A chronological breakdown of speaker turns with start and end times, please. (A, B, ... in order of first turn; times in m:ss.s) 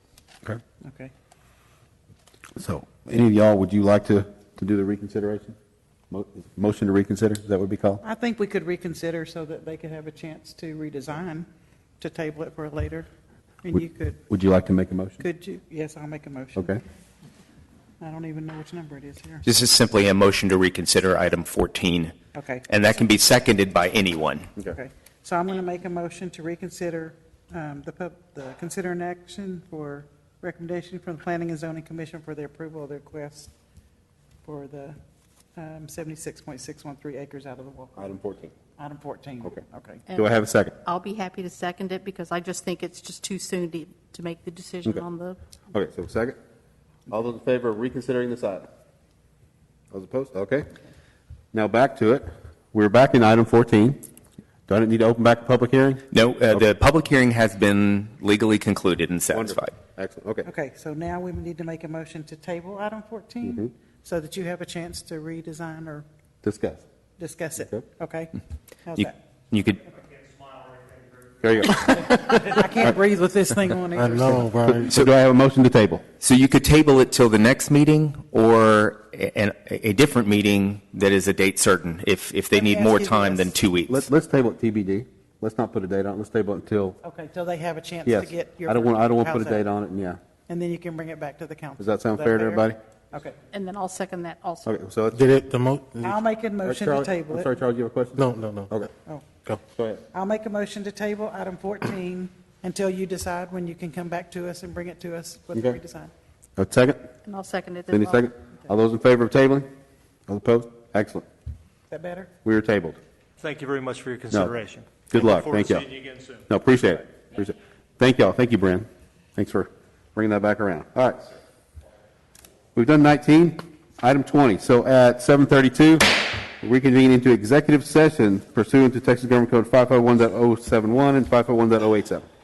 0:00.8-0:01.1 A
0:02.6-0:05.6 B
0:06.1-0:08.0 B
0:08.0-0:11.5 A
0:12.0-0:13.1 A
0:13.6-0:14.2 A
0:14.3-0:15.2 B
0:15.2-0:16.8 A
0:16.6-0:16.8 B
0:18.0-0:19.4 A
0:19.4-0:22.2 C
0:22.4-0:22.6 A
0:22.7-0:24.5 C
0:24.7-0:33.5 A
0:34.4-0:35.0 A
0:35.6-0:38.1 A
0:38.0-0:38.6 B
0:38.8-0:40.1 A
0:40.1-0:40.8 B
0:40.8-0:45.4 D
0:45.7-0:46.4 B
0:47.1-0:48.7 B
0:49.9-0:50.7 B
0:51.5-0:54.0 B
0:54.7-0:56.6 B
0:56.1-0:59.7 C
0:59.3-1:00.5 B
1:00.5-1:06.1 A
1:03.5-1:03.7 B
1:06.4-1:06.8 B
1:07.2-1:08.4 A
1:07.6-1:07.8 B
1:08.9-1:09.1 A
1:09.0-1:09.8 C
1:10.1-1:11.3 E
1:11.4-1:12.3 B
1:11.9-1:14.6 A
1:14.0-1:14.9 F
1:14.8-1:16.0 B
1:14.8-1:15.1 C
1:16.2-1:24.1 C
1:22.5-1:23.5 A
1:23.9-1:27.0 B
1:27.0-1:29.6 A
1:28.1-1:30.2 B
1:30.5-1:33.4 A
1:31.8-1:32.8 B
1:33.5-1:34.7 D
1:34.7-1:35.4 B
1:35.2-1:36.1 F
1:36.0-1:37.5 A
1:36.6-1:38.9 B
1:38.2-1:38.7 F
1:39.7-1:40.0 B
1:40.1-1:46.1 A
1:45.5-1:45.8 B
1:46.6-1:47.0 B
1:47.2-1:48.2 D
1:47.9-1:49.7 B
1:50.3-1:51.2 B
1:51.9-1:52.3 A
1:52.4-1:53.0 B
1:53.4-1:56.4 E
1:55.1-1:55.9 B
1:56.5-2:01.3 B
2:02.8-2:12.3 B